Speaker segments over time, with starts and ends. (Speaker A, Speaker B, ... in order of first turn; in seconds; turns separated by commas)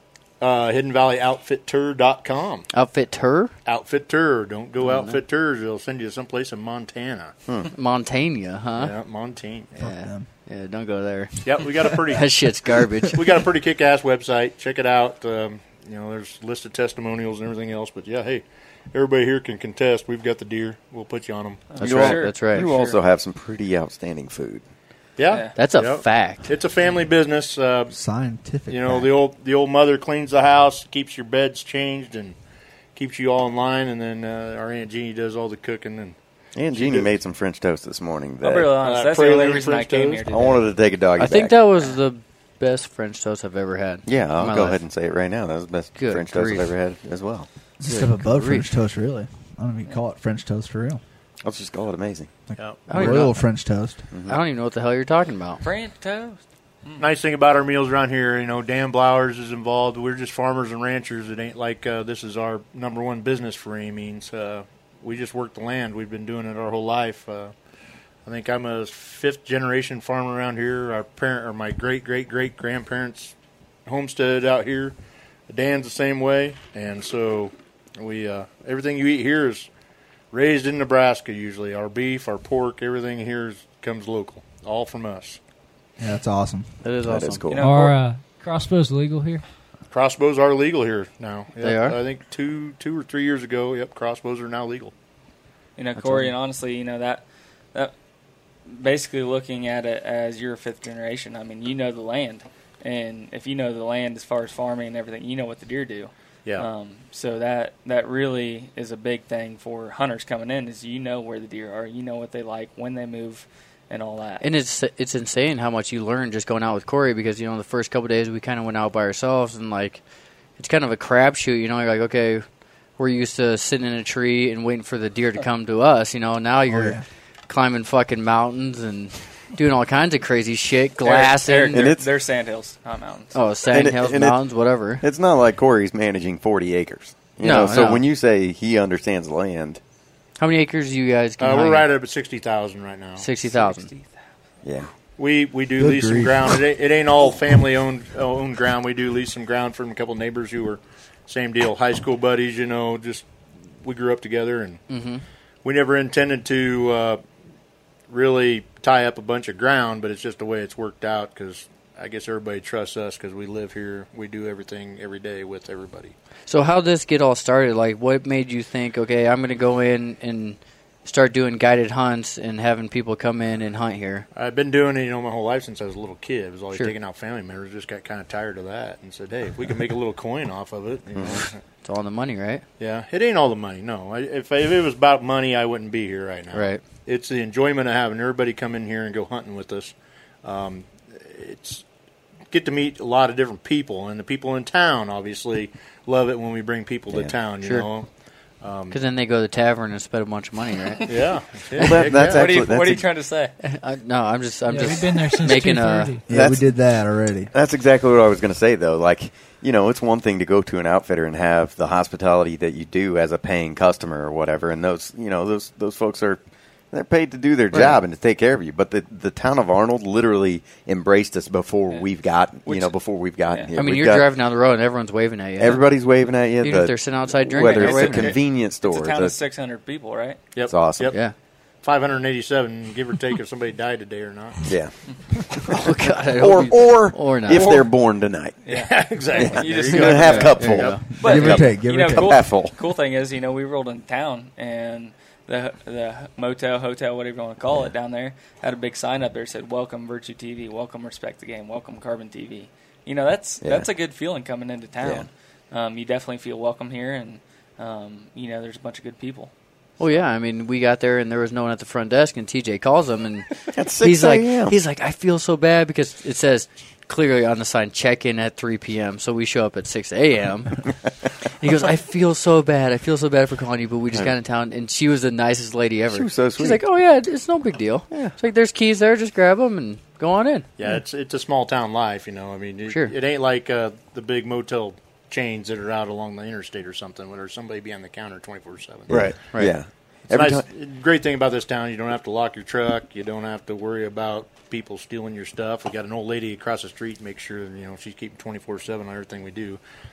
Speaker A: 0.4-2.7, Speaker B: 2.7-3.5, Speaker A: 3.7-7.3, Speaker B: 4.8-5.2, Speaker B: 7.7-8.9, Speaker A: 8.8-9.7, Speaker C: 9.8-10.3, Speaker B: 9.8-13.2, Speaker A: 11.4-12.3, Speaker A: 13.1-21.8, Speaker D: 21.7-23.0, Speaker B: 21.8-22.7, Speaker E: 21.8-24.6, Speaker A: 25.2-27.9, Speaker B: 25.6-26.5, Speaker C: 27.9-29.1, Speaker A: 28.7-32.4, Speaker A: 33.0-36.2, Speaker E: 36.5-38.8, Speaker A: 36.7-37.1, Speaker D: 38.4-40.6, Speaker A: 38.8-40.3, Speaker E: 40.3-41.6, Speaker B: 41.2-44.8, Speaker E: 44.0-47.5, Speaker B: 46.0-46.7, Speaker C: 47.8-51.0, Speaker B: 47.9-48.7, Speaker E: 51.4-52.3, Speaker C: 52.5-54.0, Speaker A: 52.6-52.9, Speaker B: 52.9-53.4, Speaker E: 54.1-54.4, Speaker B: 54.3-55.6, Speaker D: 55.6-57.0, Speaker A: 57.0-67.5, Speaker A: 68.3-73.3, Speaker A: 73.9-75.0, Speaker A: 75.5-79.7, Speaker A: 80.3-85.4, Speaker C: 86.0-86.7, Speaker B: 86.8-87.5, Speaker E: 87.0-87.8, Speaker D: 87.5-88.0, Speaker F: 87.5-89.4, Speaker A: 89.9-94.9, Speaker B: 91.6-92.0, Speaker D: 95.8-97.9, Speaker B: 96.0-96.3, Speaker D: 98.7-114.4, Speaker B: 114.4-120.0, Speaker B: 120.6-122.5, Speaker B: 123.0-131.9, Speaker C: 126.7-127.0, Speaker D: 131.0-133.3, Speaker E: 131.7-132.1, Speaker B: 133.3-135.0, Speaker E: 133.7-134.4, Speaker E: 135.0-139.8, Speaker B: 137.4-138.1, Speaker B: 140.4-141.9, Speaker A: 141.4-143.3, Speaker B: 143.2-143.9, Speaker D: 143.5-144.1, Speaker E: 144.6-144.9, Speaker A: 145.2-153.3, Speaker C: 145.8-146.6, Speaker A: 153.8-154.8, Speaker B: 154.9-155.2, Speaker A: 155.6-157.2, Speaker A: 158.1-166.1, Speaker B: 166.5-174.3, Speaker A: 174.3-181.6, Speaker E: 181.2-181.4, Speaker B: 181.3-182.6, Speaker A: 182.8-191.8, Speaker B: 186.5-186.8, Speaker A: 192.5-198.1, Speaker B: 197.6-197.9, Speaker A: 198.6-199.0, Speaker B: 198.9-201.1, Speaker A: 201.1-202.5, Speaker E: 201.8-203.1, Speaker D: 202.1-203.5, Speaker B: 203.6-206.2, Speaker F: 204.7-206.3, Speaker C: 206.3-207.5, Speaker E: 206.3-206.8, Speaker E: 207.5-216.4, Speaker E: 216.9-224.3, Speaker B: 217.7-218.0, Speaker D: 222.7-222.9, Speaker B: 223.8-225.8, Speaker E: 225.6-229.4, Speaker B: 226.6-228.4, Speaker D: 227.6-230.4, Speaker A: 230.6-231.2, Speaker E: 230.7-231.1, Speaker A: 231.8-234.6, Speaker E: 234.7-234.9, Speaker E: 235.6-235.8, Speaker B: 235.8-237.7, Speaker E: 236.3-238.6, Speaker D: 237.5-237.9, Speaker D: 238.7-259.5, Speaker A: 238.7-241.0, Speaker E: 239.3-242.8, Speaker B: 239.9-241.0, Speaker C: 241.2-242.4, Speaker E: 253.6-253.9, Speaker E: 255.0-255.3, Speaker B: 260.0-270.9, Speaker E: 263.7-264.8, Speaker B: 271.6-280.7, Speaker E: 276.1-276.8, Speaker A: 280.8-289.3, Speaker B: 282.9-283.1, Speaker E: 289.1-290.7, Speaker B: 289.1-289.8, Speaker A: 290.3-299.8